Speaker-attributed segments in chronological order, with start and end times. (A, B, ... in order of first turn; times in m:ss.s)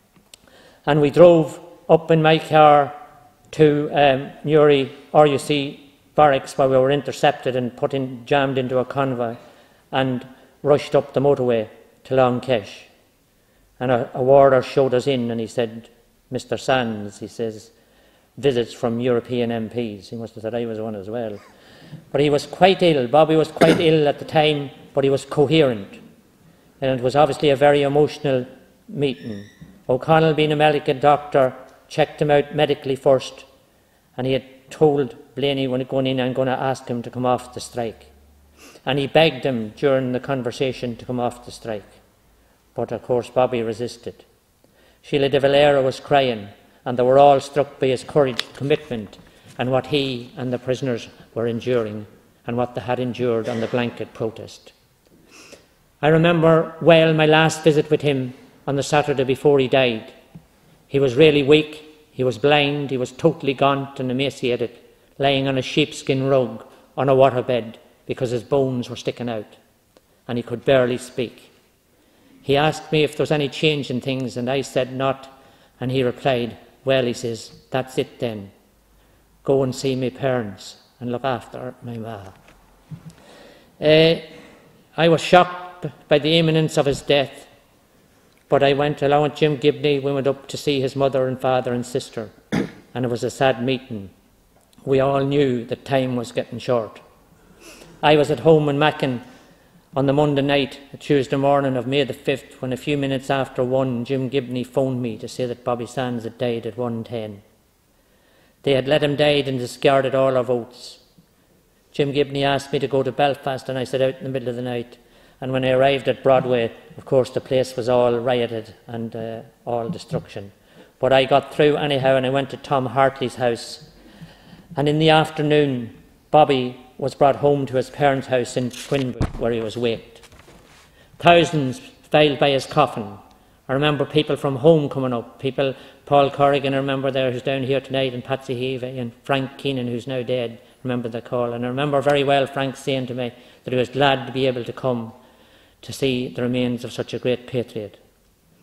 0:00.8-0:03.0 A
0:03.5-0:09.4 A
0:09.9-0:12.9 A
0:13.8-0:17.7 A
0:18.4-0:21.4 A
0:22.1-0:26.0 A
0:26.8-0:33.4 A
0:34.2-0:38.1 A
0:38.8-0:41.9 A
0:42.7-0:44.2 A
0:45.0-0:54.7 A
0:56.0-1:00.1 A
1:00.9-1:09.6 A
1:10.3-1:11.5 A
1:12.4-1:18.5 A
1:19.4-1:22.3 A
1:23.8-1:24.2 A
1:25.0-1:27.5 A
1:28.5-1:32.3 A
1:32.9-1:34.1 A
1:34.8-1:37.0 A
1:38.0-1:39.2 A
1:39.9-1:47.4 A
1:48.6-1:51.0 A
1:51.9-2:03.9 A
2:04.8-2:10.2 A
2:11.2-2:25.2 A
2:25.8-2:28.0 A